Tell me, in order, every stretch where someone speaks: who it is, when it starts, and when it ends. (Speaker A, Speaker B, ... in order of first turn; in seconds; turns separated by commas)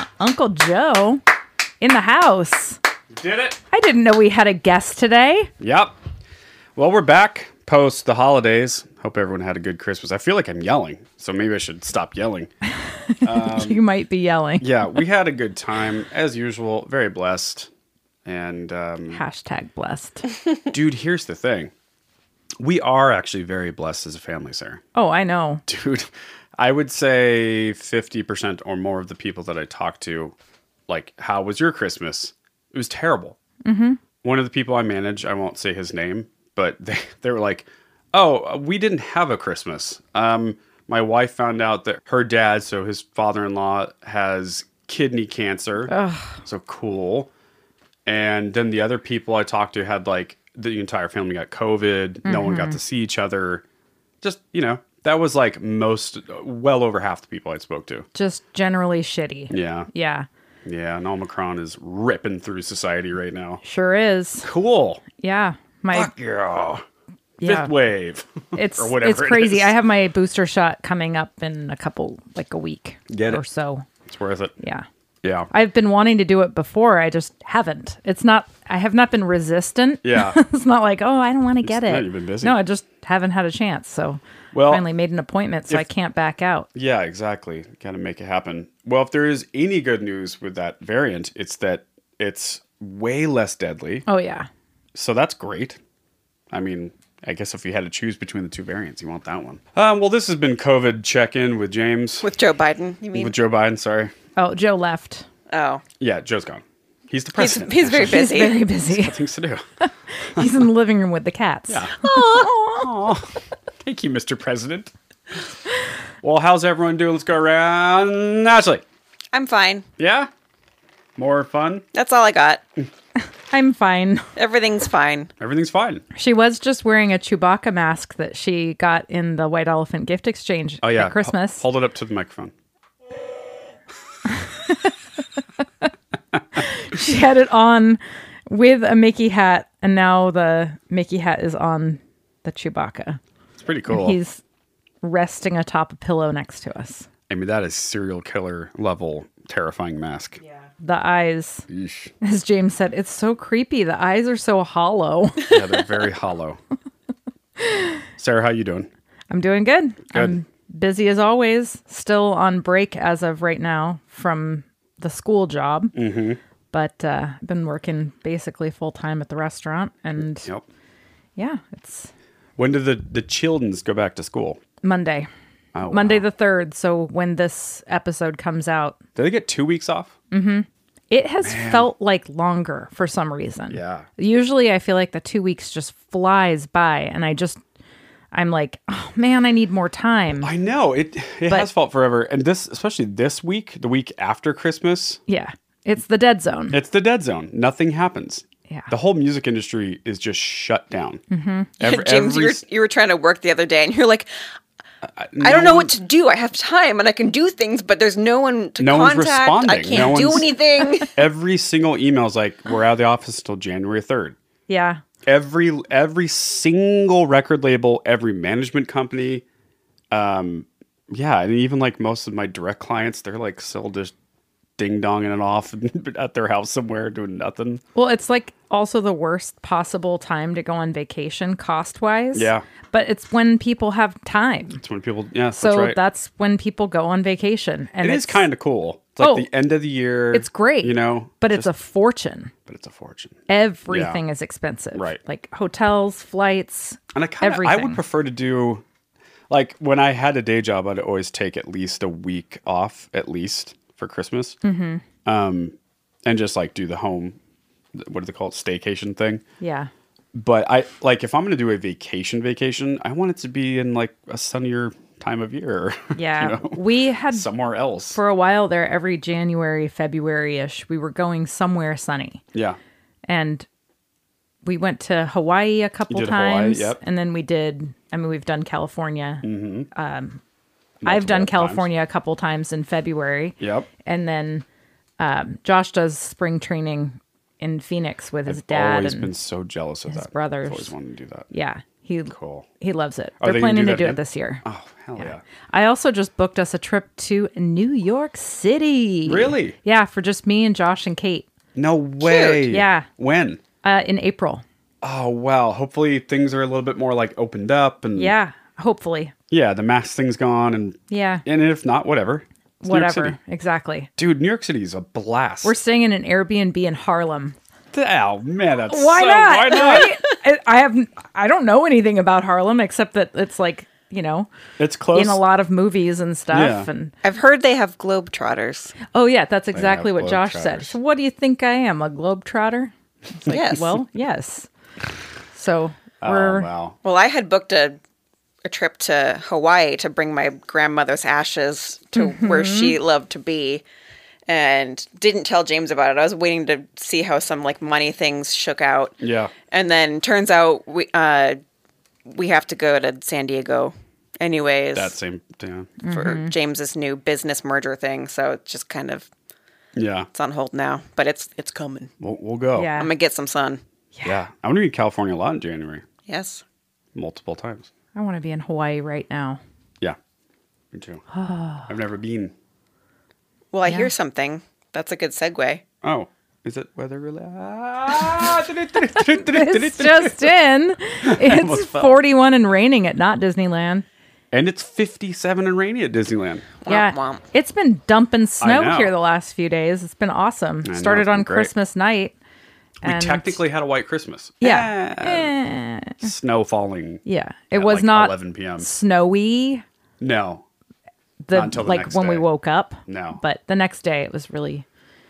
Speaker A: 0.2-1.2, Speaker A: 1.8-2.8, Speaker B: 3.1-3.6, Speaker A: 3.7-5.5, Speaker B: 5.6-5.9, Speaker B: 6.7-12.5, Speaker A: 12.9-15.0, Speaker B: 13.2-13.8, Speaker B: 14.6-17.7, Speaker B: 18.2-19.2, Speaker A: 19.1-20.2, Speaker B: 20.7-21.7, Speaker B: 22.6-24.8, Speaker A: 24.9-25.6, Speaker B: 25.7-30.3, Speaker B: 30.9-33.4, Speaker A: 33.6-34.0, Speaker B: 34.2-45.9, Speaker A: 45.9-46.4, Speaker B: 46.4-47.3, Speaker B: 48.0-53.6, Speaker A: 52.2-52.8, Speaker B: 54.2-58.0, Speaker A: 58.1-60.3, Speaker B: 59.5-59.9, Speaker B: 60.6-63.6, Speaker A: 63.6-64.5, Speaker B: 64.4-65.0, Speaker A: 65.2-66.1, Speaker B: 65.9-66.8, Speaker A: 67.4-67.7, Speaker B: 67.4-69.7, Speaker A: 68.5-73.8, Speaker B: 73.1-73.4, Speaker B: 74.0-74.5, Speaker A: 74.6-74.8, Speaker B: 75.2-75.5, Speaker A: 75.5-86.7, Speaker B: 80.0-80.4, Speaker B: 81.6-82.6, Speaker B: 84.5-84.8, Speaker B: 86.7-94.0, Speaker A: 94.1-94.5, Speaker B: 94.9-95.8, Speaker B: 96.5-102.3, Speaker C: 102.2-103.3, Speaker B: 103.1-104.1, Speaker A: 104.3-105.3, Speaker C: 105.5-105.8, Speaker B: 106.0-108.3, Speaker C: 107.4-108.6, Speaker A: 108.0-109.2, Speaker B: 108.8-109.6, Speaker A: 109.8-112.9, Speaker B: 111.7-113.3, Speaker B: 113.8-114.9, Speaker B: 116.2-118.8, Speaker C: 119.3-119.9, Speaker B: 120.0-120.3, Speaker B: 121.2-121.8, Speaker C: 121.9-122.6, Speaker A: 123.5-124.3, Speaker C: 124.3-125.3, Speaker B: 125.4-126.0, Speaker A: 126.1-131.6, Speaker B: 130.8-132.5, Speaker A: 134.3-134.9, Speaker A: 136.5-143.2, Speaker B: 143.6-144.2, Speaker A: 143.9-144.4, Speaker A: 145.0-147.1, Speaker B: 147.3-150.4, Speaker A: 150.8-151.7, Speaker B: 151.7-152.1, Speaker A: 152.2-155.6, Speaker B: 155.5-156.6, Speaker A: 157.6-157.9, Speaker B: 158.2-158.9, Speaker A: 159.3-165.9, Speaker B: 165.9-166.4, Speaker A: 166.7-170.5, Speaker A: 171.3-172.1, Speaker B: 172.6-174.6, Speaker A: 174.8-175.3, Speaker B: 175.7-176.2, Speaker A: 175.9-179.0, Speaker B: 179.2-180.1, Speaker A: 180.3-187.6, Speaker B: 181.4-181.9, Speaker B: 183.7-184.1, Speaker A: 188.3-190.5, Speaker B: 190.4-195.2, Speaker A: 195.3-196.8, Speaker B: 196.7-201.2, Speaker A: 201.3-201.7, Speaker B: 201.8-202.6, Speaker C: 201.8-204.3, Speaker B: 205.0-205.9, Speaker C: 205.4-211.1, Speaker B: 208.8-210.5, Speaker B: 211.1-214.4, Speaker A: 214.7-215.0, Speaker B: 215.2-219.4, Speaker B: 220.1-224.1, Speaker B: 224.8-227.8, Speaker A: 227.9-234.8, Speaker B: 232.3-232.6, Speaker B: 234.8-236.0, Speaker A: 235.5-238.5, Speaker B: 238.0-241.7, Speaker A: 239.2-239.5, Speaker A: 240.3-242.5, Speaker B: 242.7-244.2, Speaker A: 243.5-248.0, Speaker B: 244.9-245.2, Speaker B: 247.1-248.8, Speaker B: 249.5-254.6, Speaker A: 254.6-255.0, Speaker B: 255.2-255.7, Speaker B: 256.2-257.4, Speaker B: 257.9-259.4, Speaker A: 259.6-259.9, Speaker B: 260.3-268.2, Speaker A: 266.1-267.5, Speaker A: 268.1-272.4, Speaker A: 273.3-273.6, Speaker A: 274.6-280.4, Speaker B: 276.1-277.0, Speaker B: 279.4-279.9, Speaker B: 281.0-281.9, Speaker A: 281.0-284.6, Speaker B: 283.6-283.9, Speaker A: 285.2-289.3, Speaker B: 288.5-291.5, Speaker A: 290.1-290.9, Speaker A: 291.5-294.6, Speaker B: 292.3-292.7, Speaker B: 293.4-295.4, Speaker A: 295.2-301.5, Speaker B: 299.2-299.8, Speaker B: 301.7-303.6, Speaker C: 302.2-302.6, Speaker A: 302.6-303.1, Speaker A: 303.8-304.6, Speaker B: 305.0-308.3, Speaker A: 308.1-309.3, Speaker B: 309.5-313.4, Speaker A: 311.1-311.4, Speaker A: 312.8-314.1, Speaker B: 314.2-315.8, Speaker A: 315.6-317.6, Speaker B: 317.9-320.2, Speaker A: 318.9-324.5, Speaker B: 324.8-325.4, Speaker A: 325.1-327.1, Speaker B: 326.5-326.9, Speaker C: 327.2-328.9, Speaker A: 329.1-334.7, Speaker B: 329.7-330.9, Speaker C: 333.5-333.9, Speaker A: 335.5-336.7, Speaker B: 336.2-337.0, Speaker C: 337.0-338.0, Speaker C: 338.6-343.8, Speaker A: 342.1-342.9, Speaker C: 344.5-349.2, Speaker B: 349.2-349.5, Speaker C: 349.7-351.6, Speaker C: 352.2-355.1, Speaker B: 354.9-355.9, Speaker A: 356.0-356.5, Speaker C: 356.1-359.3, Speaker B: 359.9-360.3, Speaker C: 360.3-362.1, Speaker B: 362.2-362.9, Speaker A: 362.7-363.1, Speaker C: 363.0-363.8, Speaker B: 364.2-366.1, Speaker C: 366.3-366.6, Speaker B: 367.1-367.9, Speaker A: 368.1-369.6, Speaker B: 370.9-371.2, Speaker A: 371.3-371.9, Speaker B: 371.9-372.5, Speaker C: 373.7-375.8, Speaker A: 373.9-374.1, Speaker B: 376.0-380.5, Speaker A: 379.3-384.0, Speaker B: 381.2-382.2, Speaker B: 384.5-386.7, Speaker C: 386.8-387.4, Speaker A: 386.9-392.4, Speaker B: 388.6-389.1, Speaker B: 390.8-391.7, Speaker A: 393.0-393.6, Speaker B: 393.0-395.5, Speaker A: 394.6-396.3, Speaker B: 396.2-398.9, Speaker A: 397.2-399.8, Speaker B: 400.2-400.6, Speaker A: 401.4-404.9, Speaker B: 401.5-402.5, Speaker B: 403.1-403.4